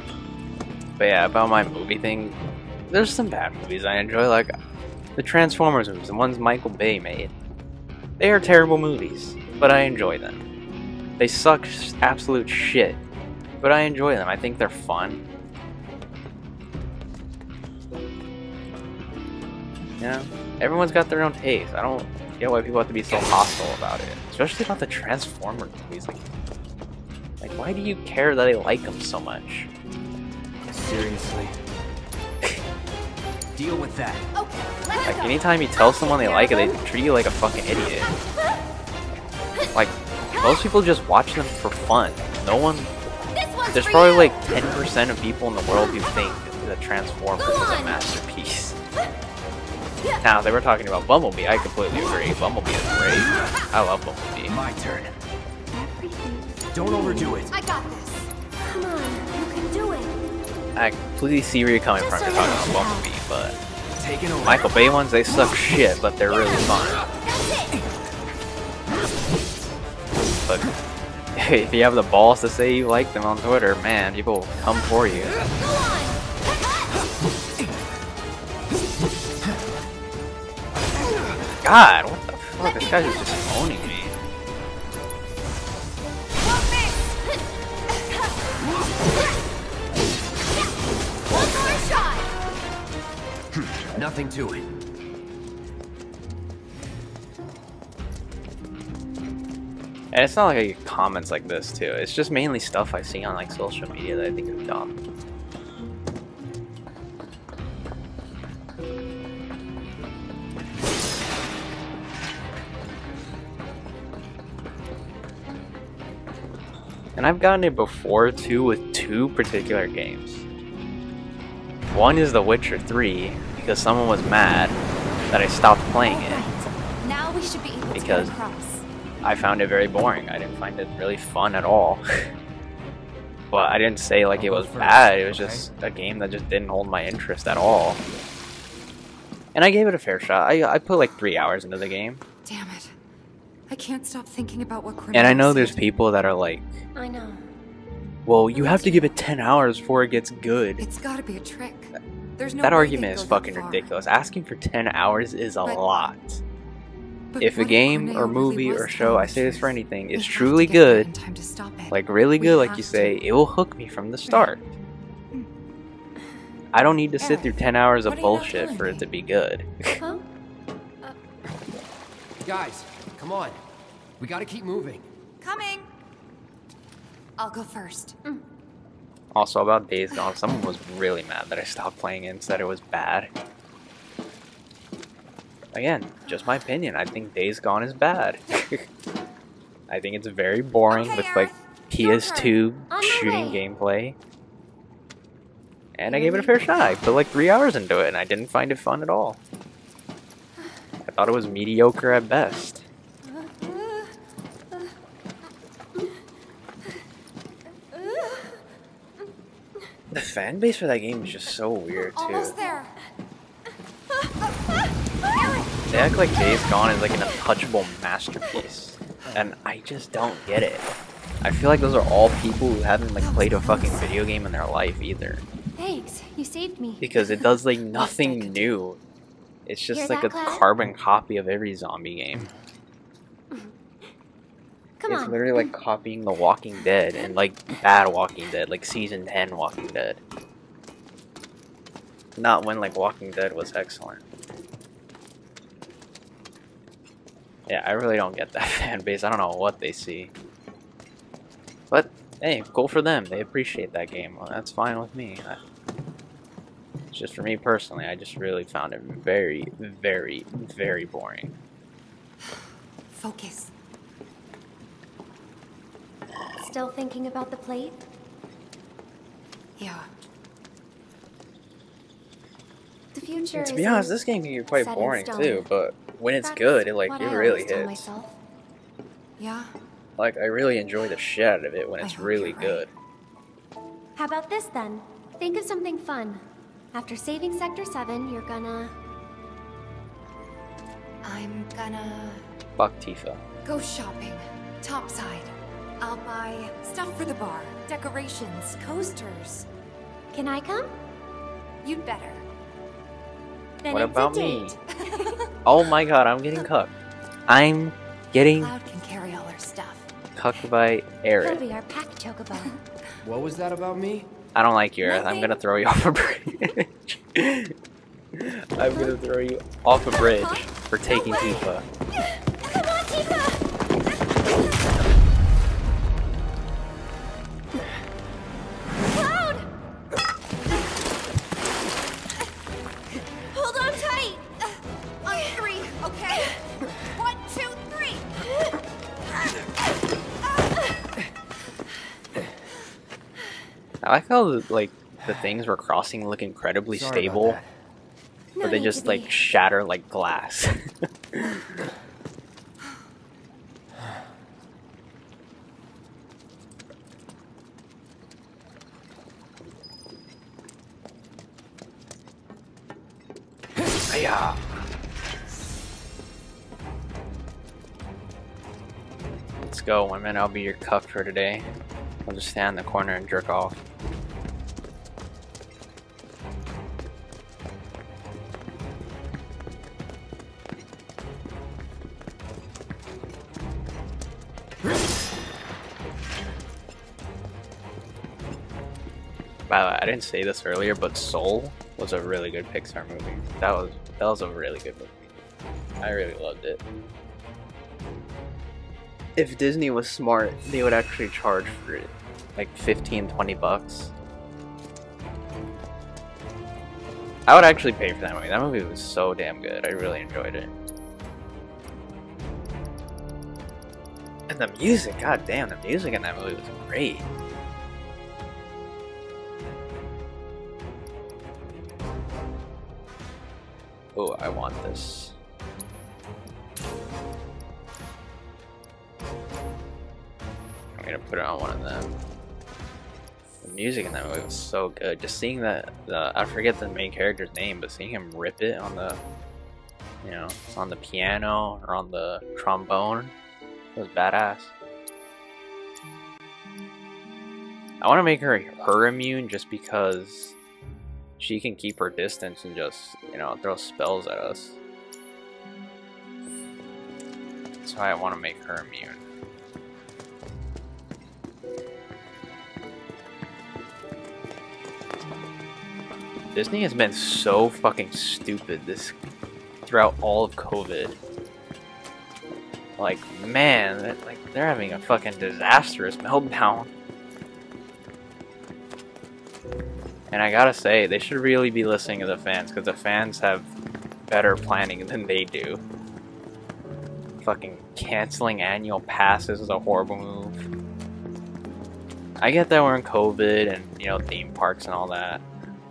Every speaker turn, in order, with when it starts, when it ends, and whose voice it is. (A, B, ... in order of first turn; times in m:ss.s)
0:01.0-0:02.4 A
0:02.9-0:04.5 A
0:05.2-0:07.3 A
0:08.2-0:10.4 A
0:11.2-0:13.0 A
0:13.6-0:15.2 A
0:20.0-0:26.2 A
0:27.4-0:29.7 A
0:30.6-0:31.6 B
0:33.5-0:34.3 B
0:34.3-0:35.3 C
0:34.8-0:35.1 D
0:35.0-0:38.1 A
0:35.8-0:36.8 D
0:39.7-0:42.9 A
0:43.3-0:44.4 D
0:43.7-0:48.8 A
0:47.4-0:48.0 D
0:50.2-0:54.6 A
0:54.5-0:55.1 B
0:55.7-0:57.4 D
0:56.7-0:57.5 B
0:57.5-0:58.3 C
0:58.6-1:00.1 D
1:00.8-1:03.6 A
1:02.0-1:03.1 D
1:04.0-1:04.7 B
1:04.4-1:07.0 A
1:07.2-1:07.8 D
1:10.4-1:10.7 A
1:11.4-1:15.4 A
1:15.5-1:16.9 D
1:21.6-1:24.2 A
1:26.5-1:27.1 D
1:31.3-1:32.3 D
1:33.5-1:34.7 B
1:40.1-1:44.9 A
1:57.2-2:00.4 A
2:01.9-2:04.8 A
2:05.3-2:06.4 A
2:06.0-2:08.8 C
2:07.9-2:08.3 A
2:09.2-2:12.3 A
2:13.5-2:18.0 A
2:14.4-2:15.7 B
2:19.5-2:22.2 A
2:22.4-2:22.9 C
2:23.7-2:25.8 C
2:25.1-2:26.8 A
2:26.9-2:27.4 D
2:28.2-2:30.8 A
2:28.5-2:28.9 C
2:30.8-2:33.9 C
2:32.6-2:36.4 A
2:37.3-2:43.2 C
2:37.4-2:41.1 A
2:41.9-2:44.7 A
2:44.3-2:44.5 C
2:46.7-2:50.0 A
2:47.2-2:49.1 C
2:50.0-2:50.2 D
2:52.4-2:53.6 B
2:54.2-2:55.1 B
2:55.4-2:55.9 C
2:57.4-2:58.2 C
2:59.3-3:03.3 A
3:05.7-3:08.9 A
3:09.9-3:14.2 A
3:10.9-3:12.6 C
3:12.9-3:13.6 D
3:16.0-3:19.4 A
3:16.1-3:16.6 C
3:21.0-3:22.8 A
3:23.4-3:24.1 C
3:30.1-3:32.5 A
3:32.1-3:32.9 C
3:35.9-3:45.4 A
3:39.2-3:39.5 B
3:43.2-3:44.1 C
3:45.8-3:47.1 D
3:47.0-3:49.0 A
3:47.9-3:48.2 C
3:48.2-3:48.7 D
3:49.6-3:52.5 A
3:49.9-3:50.6 D
3:55.0-3:55.7 D
3:55.1-4:00.2 A
4:02.4-4:04.2 A
4:07.7-4:10.3 A
4:11.9-4:15.6 A
4:17.1-4:21.5 A
4:23.1-4:23.7 C
4:26.6-4:28.0 D
4:29.8-4:30.1 C
4:33.1-4:34.2 D
4:33.5-4:38.1 A
4:34.7-4:35.6 D
4:36.4-4:38.3 D
4:39.4-4:39.7 C
4:40.2-4:42.9 A
4:42.0-4:42.8 C
4:44.2-4:48.9 D
4:51.2-4:52.4 C
4:52.8-4:53.4 A
4:53.6-4:59.7 C
5:00.3-5:00.9 D
5:01.8-5:02.4 C
5:03.8-5:05.4 D
5:03.9-5:04.8 A
5:04.9-5:05.5 C
5:05.6-5:06.9 A
5:07.5-5:08.7 A
5:08.6-5:10.1 C
5:10.3-5:11.6 A
5:11.4-5:12.8 D
5:13.2-5:14.3 B
5:14.5-5:17.7 A
5:15.0-5:15.6 C
5:18.3-5:21.8 A
5:20.1-5:21.7 D
5:22.7-5:23.6 D
5:29.1-5:29.6 D
5:33.5-5:34.4 D
5:35.2-5:38.3 C
5:35.3-5:35.6 D
5:44.0-5:47.6 A
5:46.9-5:47.7 B
5:48.6-5:49.4 D
5:48.6-5:50.8 A
5:51.3-5:51.8 A
6:04.1-6:04.6 A
6:09.6-6:11.7 A
6:12.2-6:13.8 A
6:29.7-6:35.3 A
6:36.0-6:36.8 A
6:39.4-6:44.1 A
6:47.5-6:50.7 A
6:54.5-6:57.2 A
7:04.1-7:05.4 A
7:11.0-7:12.2 A
7:13.6-7:19.2 A
7:20.2-7:23.3 A
7:23.9-7:24.7 A
7:28.0-7:30.6 A
7:31.4-7:34.8 A
7:37.8-7:39.2 A
7:46.5-7:49.2 A
7:49.8-7:51.2 A
7:53.0-7:56.9 A
8:00.3-8:03.7 A
8:04.3-8:05.8 A
8:07.4-8:10.7 A
8:12.4-8:15.4 A